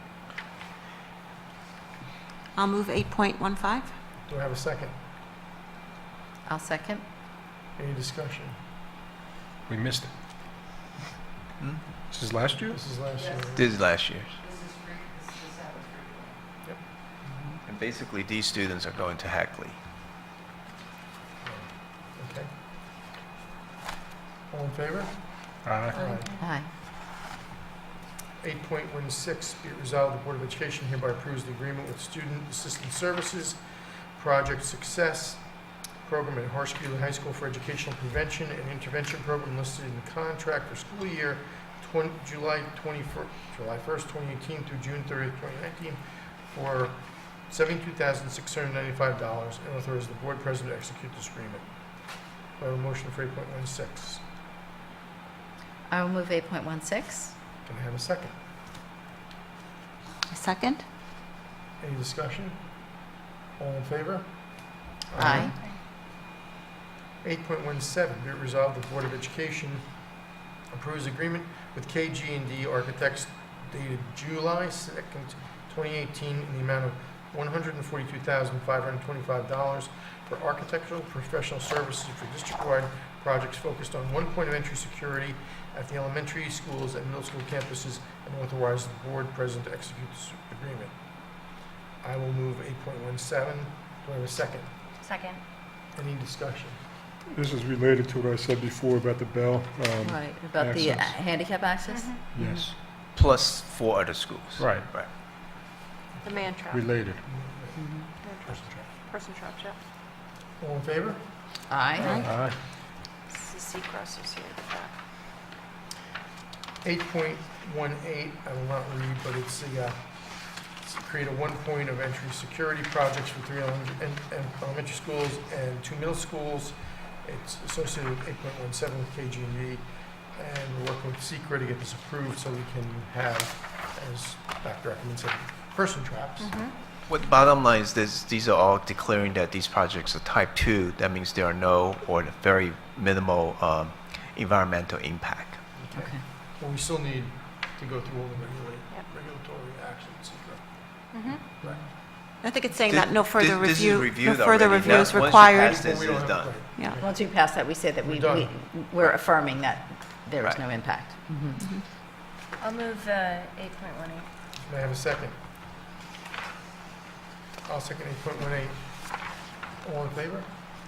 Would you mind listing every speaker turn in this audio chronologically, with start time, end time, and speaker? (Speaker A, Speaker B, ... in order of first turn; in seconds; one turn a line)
Speaker A: 2.6-3.9
Speaker B: 4.3-4.9
Speaker C: 6.5-7.0
Speaker B: 7.8-8.6
Speaker D: 9.7-10.1
Speaker D: 12.1-12.8
Speaker B: 12.7-13.7
Speaker E: 13.6-14.4
Speaker E: 17.7-19.8
Speaker B: 21.4-22.5
Speaker B: 24.5-25.1
Speaker D: 25.6-26.0
Speaker B: 25.9-26.3
Speaker F: 25.9-26.4
Speaker C: 26.4-26.7
Speaker B: 28.4-33.6
Speaker B: 34.1-51.6
Speaker B: 52.6-54.2
Speaker C: 55.9-57.4
Speaker B: 57.6-58.4
Speaker A: 60.3-60.8
Speaker B: 61.8-62.6
Speaker B: 63.6-64.3
Speaker B: 65.1-65.5
Speaker C: 65.2-65.5
Speaker B: 67.2-69.9
Speaker B: 70.7-91.0
Speaker B: 92.0-94.7
Speaker G: 95.1-95.4
Speaker B: 96.0-96.8
Speaker D: 97.3-101.2
Speaker C: 100.0-102.7
Speaker G: 101.9-102.3
Speaker D: 102.3-102.8
Speaker E: 103.1-105.1
Speaker D: 104.6-104.9
Speaker F: 106.2-106.9
Speaker D: 106.7-107.3
Speaker B: 107.2-108.9
Speaker C: 107.8-108.1
Speaker F: 108.2-109.8
Speaker B: 110.6-112.2
Speaker C: 111.7-112.2
Speaker A: 112.0-112.3
Speaker D: 112.2-112.6
Speaker F: 113.3-114.9
Speaker B: 116.8-120.0
Speaker B: 120.8-136.6
Speaker E: 137.1-145.6
Speaker B: 145.8-150.6
Speaker C: 145.9-146.2
Speaker A: 152.4-155.8
Speaker E: 152.9-156.6
Speaker B: 154.9-157.3
Speaker C: 157.0-161.7
Speaker B: 158.0-158.5
Speaker A: 161.6-161.8
Speaker G: 162.6-164.3
Speaker B: 164.6-165.3
Speaker B: 167.7-169.1
Speaker B: 169.8-170.5